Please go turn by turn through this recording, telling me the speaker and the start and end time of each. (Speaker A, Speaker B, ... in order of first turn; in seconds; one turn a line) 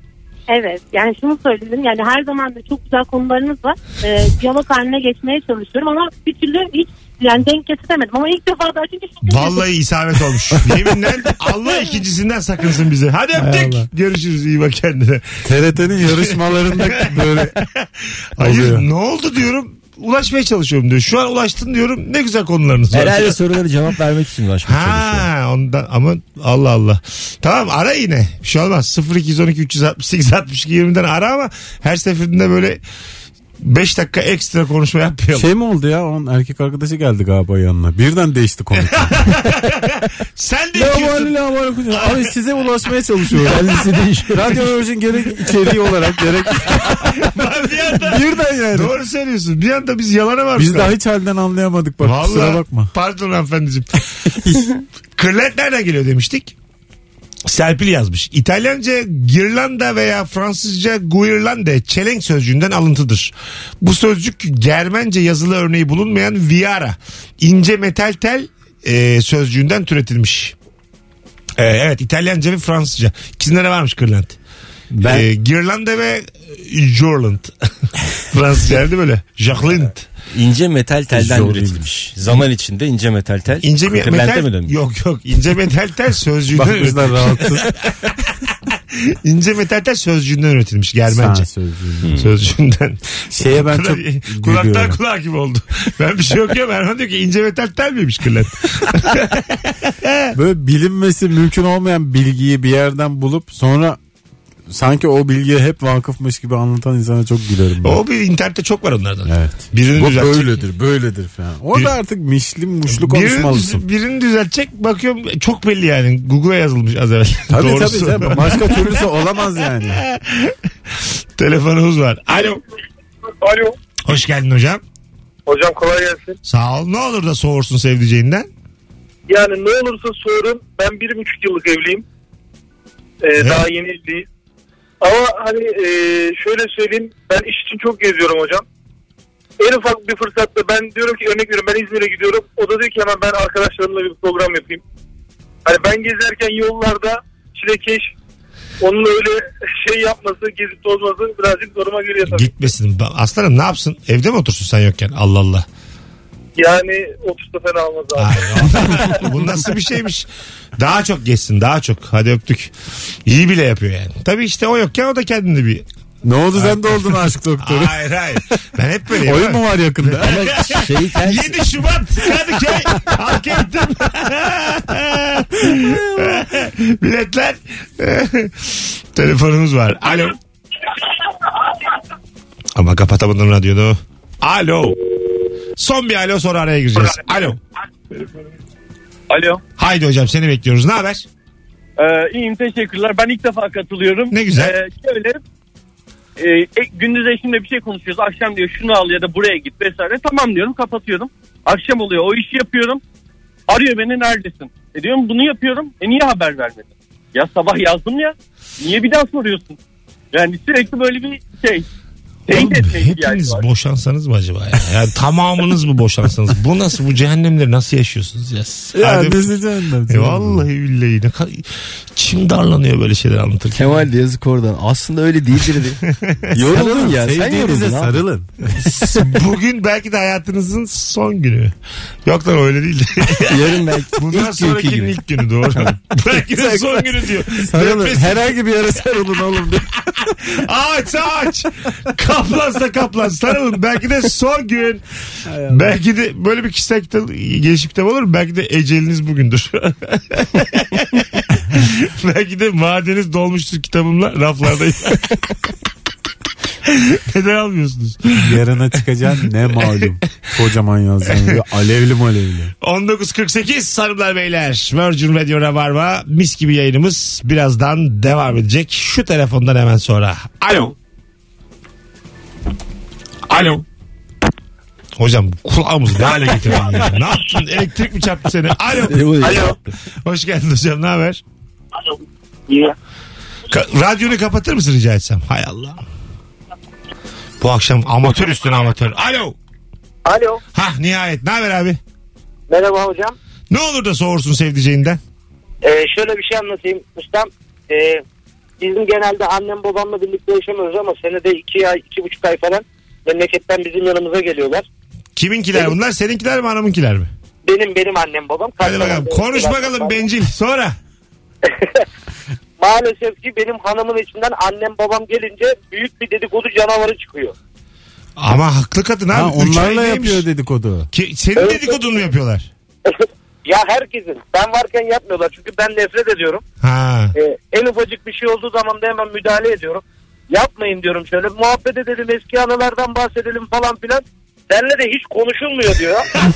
Speaker A: 0.5-9.6
Speaker B: 9.2-15.4
Speaker C: 13.4-13.9
Speaker C: 15.4-17.5
Speaker B: 16.0-23.4
Speaker C: 18.4-18.9
Speaker D: 22.9-25.3
Speaker B: 24.6-32.8
Speaker B: 33.6-35.5
Speaker C: 35.3-39.3
Speaker B: 38.8-41.3
Speaker C: 40.7-43.8
Speaker D: 43.4-44.6
Speaker C: 44.3-47.2
Speaker B: 46.8-50.9
Speaker C: 48.0-48.9
Speaker C: 50.5-52.9
Speaker B: 52.0-53.9
Speaker C: 54.4-54.7
Speaker B: 55.1-56.5
Speaker B: 57.5-70.5
Speaker B: 71.6-74.4
Speaker C: 74.9-75.3
Speaker B: 75.0-77.5
Speaker B: 78.2-80.0
Speaker D: 80.3-84.7
Speaker C: 81.1-81.9
Speaker B: 83.6-88.3
Speaker C: 86.5-87.7
Speaker B: 88.9-91.5
Speaker C: 91.1-92.1
Speaker D: 92.0-92.3
Speaker B: 92.1-100.3
Speaker C: 93.3-95.0
Speaker C: 100.3-104.0
Speaker C: 104.7-108.0
Speaker B: 107.8-110.6
Speaker C: 109.2-113.8
Speaker B: 112.9-119.0
Speaker C: 117.5-120.0
Speaker B: 120.1-120.5
Speaker B: 121.4-122.6
Speaker E: 123.4-123.8
Speaker B: 124.0-124.8
Speaker E: 125.5-126.4
Speaker B: 126.4-128.5
Speaker E: 129.3-132.0
Speaker E: 133.2-134.3
Speaker B: 133.4-133.6
Speaker E: 135.0-138.6
Speaker E: 139.6-144.8
Speaker E: 145.6-148.1
Speaker E: 148.8-152.5
Speaker B: 152.2-155.7
Speaker E: 156.6-158.6
Speaker B: 158.1-160.3
Speaker B: 160.8-162.7
Speaker B: 163.2-165.8
Speaker C: 166.2-168.0
Speaker B: 166.5-180.4
Speaker C: 169.2-170.6
Speaker D: 170.2-171.6
Speaker B: 182.7-185.0
Speaker B: 185.8-187.6
Speaker F: 189.3-189.6
Speaker B: 189.8-191.2
Speaker F: 192.0-195.4
Speaker B: 194.3-194.8
Speaker F: 196.4-203.0
Speaker F: 203.7-209.8
Speaker F: 210.3-211.9
Speaker B: 212.5-219.5
Speaker F: 212.5-213.7
Speaker C: 218.9-220.7
Speaker B: 220.1-224.1
Speaker D: 223.7-226.0
Speaker B: 226.2-226.5
Speaker D: 226.5-228.2
Speaker C: 226.6-229.3
Speaker B: 228.8-231.7
Speaker B: 232.2-238.3
Speaker D: 233.4-235.2
Speaker C: 236.5-240.4
Speaker B: 240.5-245.0
Speaker C: 245.5-245.9
Speaker B: 245.6-255.4
Speaker B: 256.9-258.5
Speaker C: 258.4-262.7
Speaker B: 262.8-270.9
Speaker B: 273.5-273.8
Speaker B: 275.2-281.4
Speaker D: 279.1-279.8
Speaker B: 283.7-286.0
Speaker B: 287.6-289.6
Speaker G: 290.2-290.6
Speaker B: 290.7-292.0
Speaker G: 292.7-293.3
Speaker B: 293.7-295.2
Speaker G: 295.8-298.2
Speaker G: 298.8-304.9
Speaker B: 305.4-307.3
Speaker G: 307.6-310.2
Speaker B: 308.8-310.9
Speaker G: 311.7-312.0
Speaker G: 312.8-317.5
Speaker B: 318.4-320.4
Speaker C: 319.3-321.1
Speaker B: 321.1-322.7
Speaker G: 321.6-322.1
Speaker G: 323.1-326.6
Speaker B: 326.8-327.3
Speaker G: 327.3-336.3